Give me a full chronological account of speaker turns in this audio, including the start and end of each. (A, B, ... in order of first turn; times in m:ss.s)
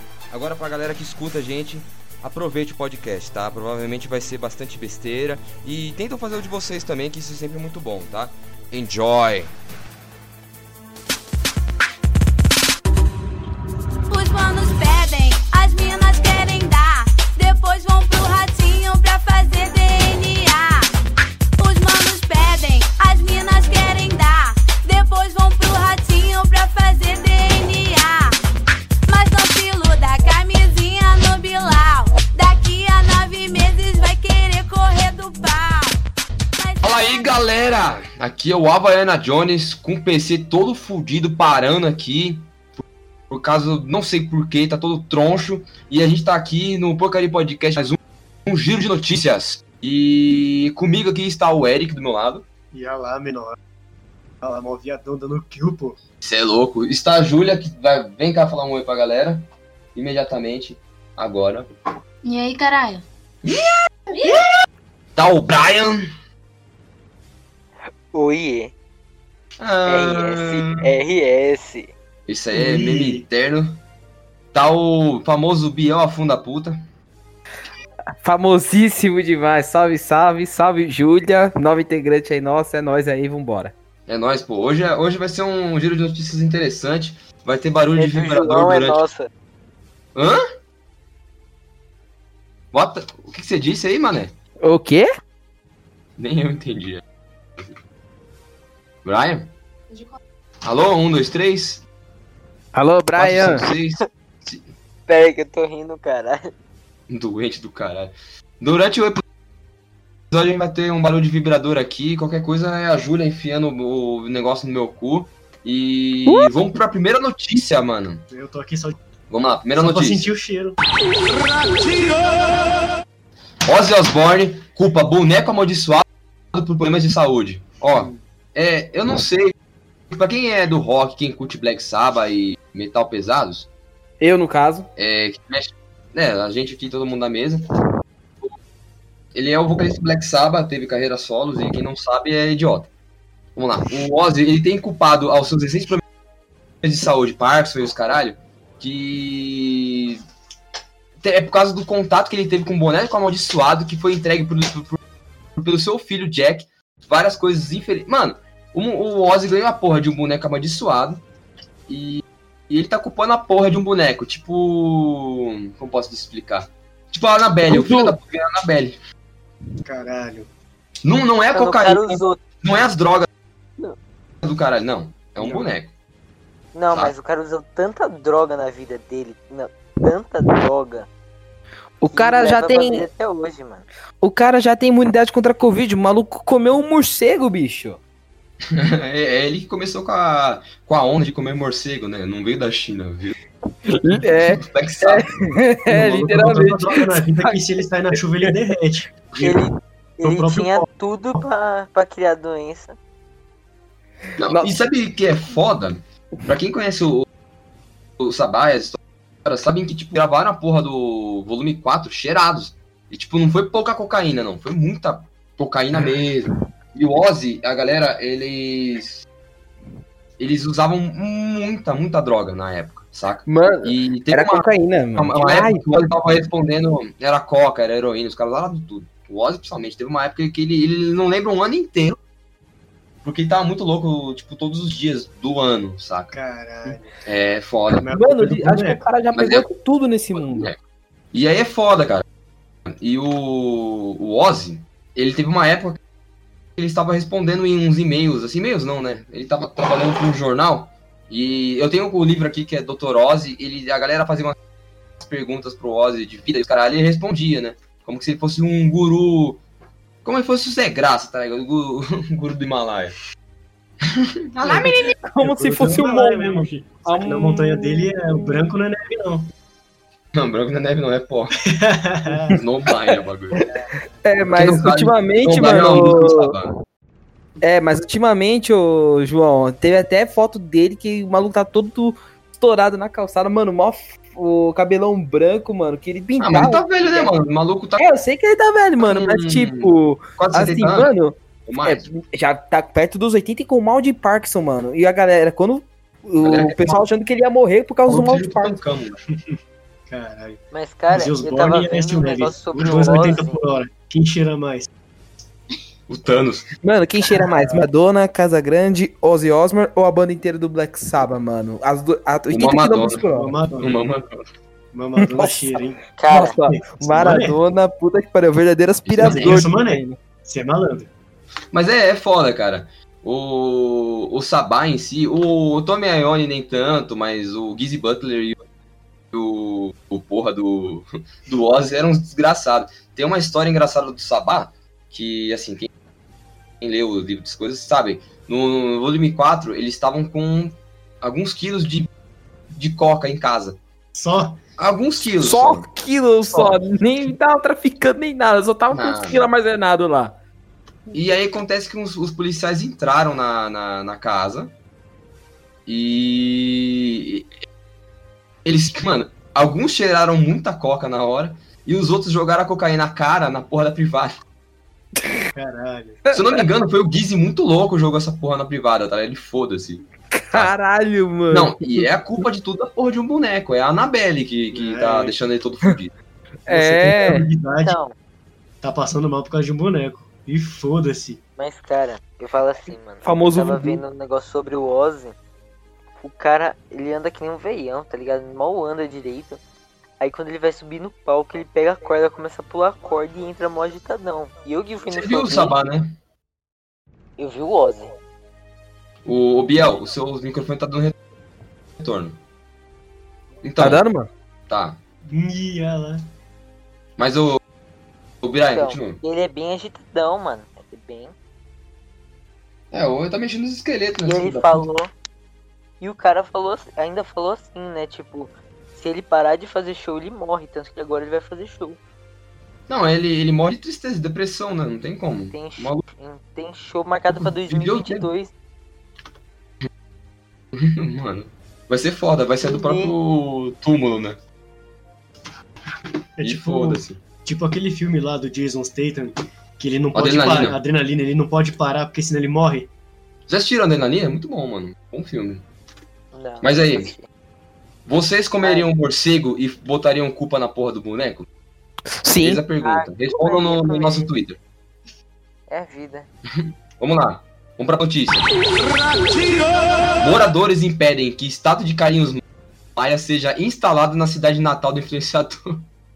0:00.3-0:09.5 A
0:14.1-0:20.9 B
0:21.6-0:28.4 B
0:29.1-0:36.0 B
0:36.6-0:37.1 B
0:36.8-0:52.5 A
0:52.7-0:53.6 C
0:54.4-0:56.0 C
0:56.2-1:01.7 A
1:02.2-1:03.0 B
1:03.4-1:04.4 A
1:05.2-1:06.0 A
1:08.1-1:08.7 D
1:09.6-1:10.9 A
1:09.8-1:11.9 D
1:12.3-1:13.8 A
1:12.5-1:13.2 C
1:14.5-1:16.8 A
1:18.2-1:23.7 E
1:24.1-1:29.0 A
1:28.0-1:29.3 D
1:30.1-1:30.4 A
1:32.7-1:34.3 A
1:34.6-1:35.0 E
1:36.2-1:37.0 A
1:39.0-1:39.5 A
1:40.6-1:41.8 A
1:42.7-1:43.7 E
1:43.2-1:44.7 A
1:45.1-1:46.5 D
1:47.1-1:49.2 A
1:50.3-1:58.2 A
1:58.3-1:59.0 C
1:59.3-2:00.3 A
1:59.8-2:00.8 C
2:03.6-2:09.5 A
2:07.9-2:08.2 C
2:10.1-2:13.7 A
2:14.2-2:14.9 E
2:15.0-2:17.7 A
2:19.3-2:22.9 A
2:23.6-2:26.0 A
2:26.8-2:30.2 A
2:31.2-2:35.0 A
2:35.6-2:41.2 A
2:41.9-2:49.0 A
2:47.7-2:48.1 E
2:49.8-2:50.5 C
2:51.0-2:53.3 A
2:51.5-2:52.4 D
2:54.4-2:55.9 A
2:56.7-3:01.1 D
3:02.0-3:03.0 E
3:02.1-3:03.8 D
3:04.2-3:08.0 E
3:08.7-3:13.4 A
3:13.9-3:15.3 A
3:14.0-3:17.6 E
3:15.9-3:19.5 C
3:19.4-3:22.9 D
3:20.2-3:20.9 C
3:24.4-3:27.3 A
3:24.4-3:24.7 E
3:28.2-3:39.2 A
3:40.4-3:52.2 A
3:43.5-3:45.8 E
3:53.2-3:56.4 A
3:56.3-3:57.1 C
3:57.2-3:58.1 A
3:58.0-3:59.0 C
3:58.1-4:00.7 E
3:59.3-3:59.6 A
4:00.4-4:00.8 A
4:01.3-4:02.2 A
4:02.9-4:06.0 A
4:06.8-4:14.6 A
4:15.2-4:19.6 A
4:20.2-4:23.1 A
4:24.0-4:24.9 A
4:24.6-4:28.6 E
4:24.6-4:29.5 C
4:30.3-4:31.6 A
4:31.6-4:32.6 C
4:32.5-4:33.6 A
4:33.7-4:34.0 C
4:34.2-4:36.6 E
4:34.5-4:36.7 A
4:37.6-4:47.3 E
4:46.4-4:48.2 A
4:48.0-4:51.3 E
4:49.0-4:51.1 A
4:51.7-4:52.1 A
4:51.8-4:58.8 E
4:56.4-4:57.0 A
4:58.1-4:59.2 A
5:00.1-5:04.9 C
5:00.7-5:03.6 D
5:06.1-5:06.7 A
5:06.8-5:13.5 E
5:07.3-5:07.9 C
5:12.5-5:13.2 A
5:13.3-5:14.0 C
5:13.8-5:14.4 A
5:14.9-5:16.0 C
5:15.2-5:15.7 E
5:16.2-5:16.6 D
5:16.3-5:20.2 E
5:16.6-5:17.6 C
5:19.0-5:19.6 A
5:19.2-5:21.1 C
5:21.7-5:28.6 A
5:29.3-5:35.9 A
5:36.8-5:42.1 A
5:42.7-5:43.8 A
5:44.1-5:44.6 C
5:44.8-5:45.9 A
5:45.3-5:50.3 E
5:46.5-5:46.7 A
5:48.9-5:49.4 A
5:51.1-5:54.7 A
5:55.9-5:57.5 A
5:58.6-6:04.3 A
6:05.5-6:06.2 C
6:06.3-6:10.7 A
6:10.3-6:12.1 E
6:11.5-6:16.1 A
6:14.7-6:15.4 C
6:16.6-6:17.5 E
6:16.7-6:18.0 C
6:17.8-6:18.1 D
6:18.8-6:21.4 C
6:21.6-6:25.4 D
6:23.2-6:24.0 E
6:26.2-6:29.6 D
6:30.2-6:35.8 D
6:35.1-6:36.1 A
6:37.4-6:38.1 D
6:39.2-6:41.1 A
6:42.0-6:42.4 A
6:43.6-6:44.0 A
6:43.8-6:44.3 E
6:44.7-6:45.0 A
6:45.3-6:46.2 C
6:47.2-6:47.6 A
6:48.4-6:49.2 A
6:48.7-6:51.3 D
6:52.9-6:54.8 A
6:54.2-6:55.1 D
6:56.0-7:02.0 D
7:02.9-7:06.0 A
7:05.5-7:08.5 D
7:07.7-7:08.2 A
7:10.7-7:14.4 A
7:12.6-7:13.1 D
7:16.4-7:22.9 C
7:16.4-7:17.2 A
7:20.1-7:20.8 A
7:23.5-7:25.6 A
7:26.3-7:27.2 D
7:26.6-7:27.1 A
7:28.0-7:31.5 A
7:32.2-7:32.6 E
7:32.4-7:34.6 A
7:32.8-7:34.3 D
7:35.7-7:36.3 D
7:36.5-7:38.5 A
7:40.2-7:42.4 A
7:43.0-7:45.8 A